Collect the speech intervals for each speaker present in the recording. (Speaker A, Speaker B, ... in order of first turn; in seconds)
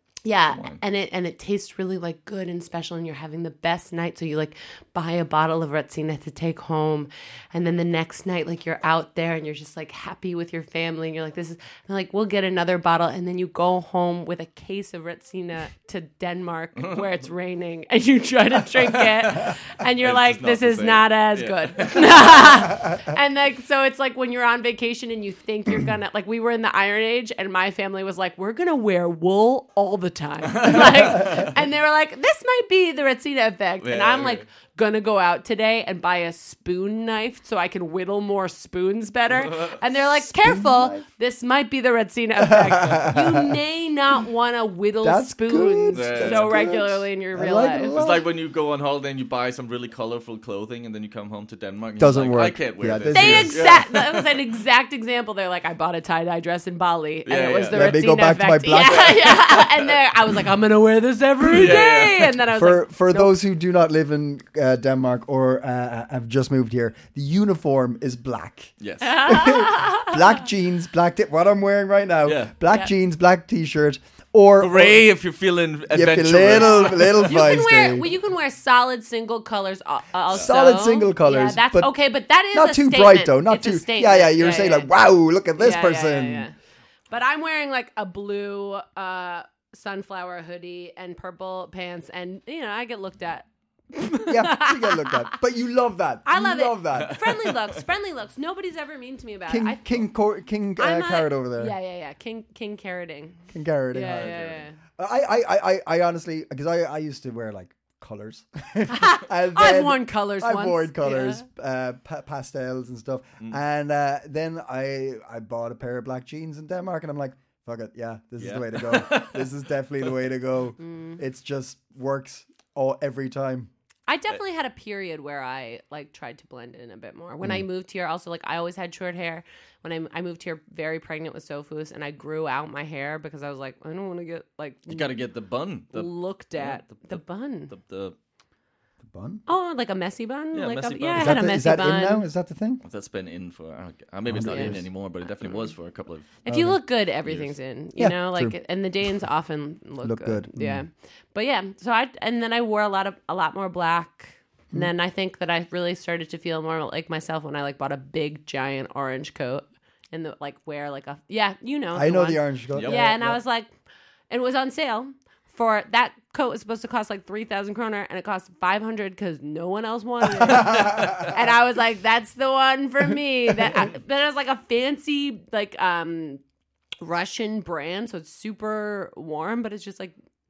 Speaker A: 0.2-48.0, 53.1-63.4, 69.0-70.4, 76.5-84.9, 85.6-86.5, 87.1-95.3, 96.2-100.0, 100.8-104.8, 108.9-111.4, 120.8-121.2, 124.1-135.1, 135.9-137.7, 139.4-142.3, 144.4-144.8, 146.4-163.7, 164.3-176.4, 177.0-180.1
Speaker B: 0.5-0.8, 16.8-17.1, 18.9-22.6, 30.4-31.5, 33.8-34.4, 39.3-39.8, 45.9-46.6, 47.9-54.3, 57.2-58.0, 61.4-62.4, 68.8-69.2, 72.2-72.5, 74.6-77.5, 97.0-97.8, 104.0-104.6, 118.4-119.6, 134.9-138.2, 140.5-141.5, 142.8-146.4, 147.2-147.5, 162.7-163.0, 170.6-171.2
Speaker C: 40.3-41.0, 42.4-43.5, 45.0-48.2, 52.0-53.7, 57.7-59.3, 62.5-75.0, 75.9-78.1, 80.3-81.9, 82.5-86.5, 94.3-97.2, 99.5-101.7, 103.5-104.4, 105.0-123.7, 139.0-139.4, 141.2-142.8, 144.3-144.8, 146.5-146.8, 148.0-148.6, 150.0-150.9, 161.9-163.4, 170.4-171.1